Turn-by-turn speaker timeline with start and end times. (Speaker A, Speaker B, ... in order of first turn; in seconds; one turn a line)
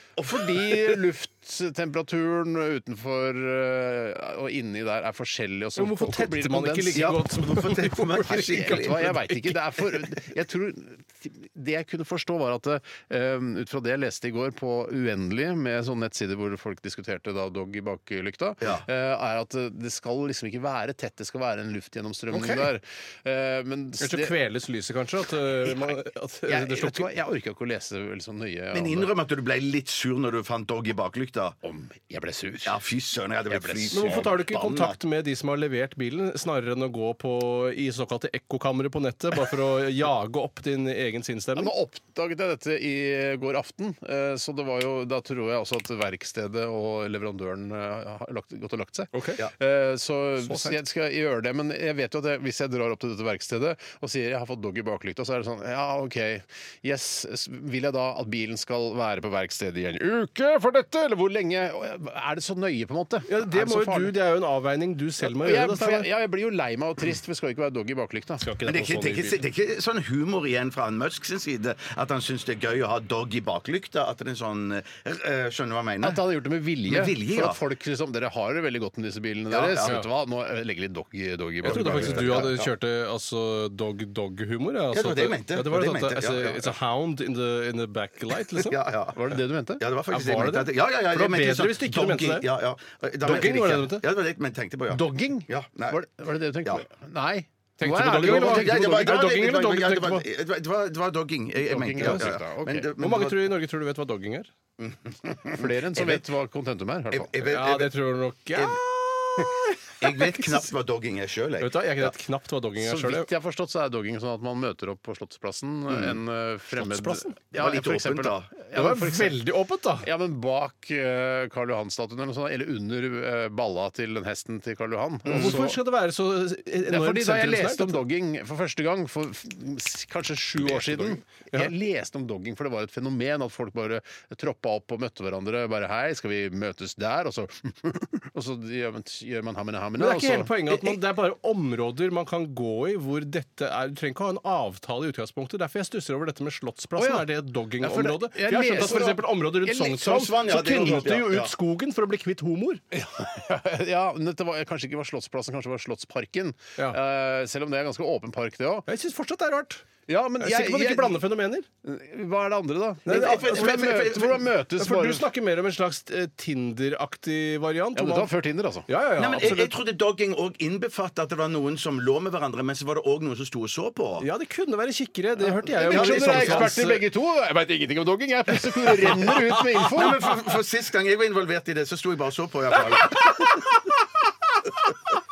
Speaker A: 0.2-0.5
Speaker B: 0.3-7.2
Speaker C: 5.8-9.6
Speaker A: 7.0-9.2
Speaker B: 8.3-24.4
Speaker C: 22.3-22.6
Speaker C: 24.0-27.1
Speaker B: 26.5-29.1
Speaker A: 28.7-31.6
Speaker B: 31.6-32.8
Speaker A: 32.6-35.0
Speaker B: 33.5-34.3
Speaker C: 33.9-41.7
Speaker B: 41.6-64.2
Speaker C: 49.1-49.4
Speaker C: 50.4-50.8
Speaker C: 63.3-66.1
Speaker B: 65.2-68.5
Speaker C: 68.4-69.4
Speaker A: 68.7-76.2
Speaker B: 76.0-82.6
Speaker A: 76.9-77.6
Speaker A: 79.5-80.0
Speaker C: 81.6-88.8
Speaker A: 81.7-82.7
Speaker A: 84.9-86.7
Speaker A: 88.6-89.2
Speaker B: 89.1-89.8
Speaker A: 89.8-96.0
Speaker C: 90.1-92.5
Speaker C: 93.2-94.0
Speaker B: 94.9-99.2
Speaker C: 97.8-100.2
Speaker A: 98.0-103.5
Speaker B: 101.6-102.9
Speaker C: 102.0-102.3
Speaker C: 103.0-104.5
Speaker A: 104.8-106.2
Speaker B: 105.5-107.3
Speaker A: 107.1-107.9
Speaker C: 107.5-108.8
Speaker A: 108.5-112.1
Speaker C: 111.6-113.3
Speaker B: 112.8-119.4
Speaker A: 115.9-116.2
Speaker C: 116.8-117.3
Speaker A: 117.5-118.5
Speaker C: 118.7-120.1
Speaker B: 120.0-125.8
Speaker A: 125.3-125.6
Speaker C: 125.3-128.0
Speaker B: 126.9-141.0
Speaker C: 130.6-131.7
Speaker C: 140.0-152.8
Speaker B: 147.0-150.2
Speaker A: 149.9-151.5
Speaker B: 150.8-151.1
Speaker B: 152.9-158.9
Speaker C: 158.9-159.9
Speaker B: 160.1-161.2
Speaker C: 160.4-161.7
Speaker B: 161.8-165.3
Speaker C: 163.1-163.9
Speaker A: 163.1-164.4
Speaker C: 164.8-168.3
Speaker B: 167.9-168.9
Speaker C: 168.9-169.7
Speaker A: 169.2-174.3
Speaker C: 174.2-177.0
Speaker B: 175.4-180.3
Speaker A: 175.8-176.7
Speaker A: 179.9-183.5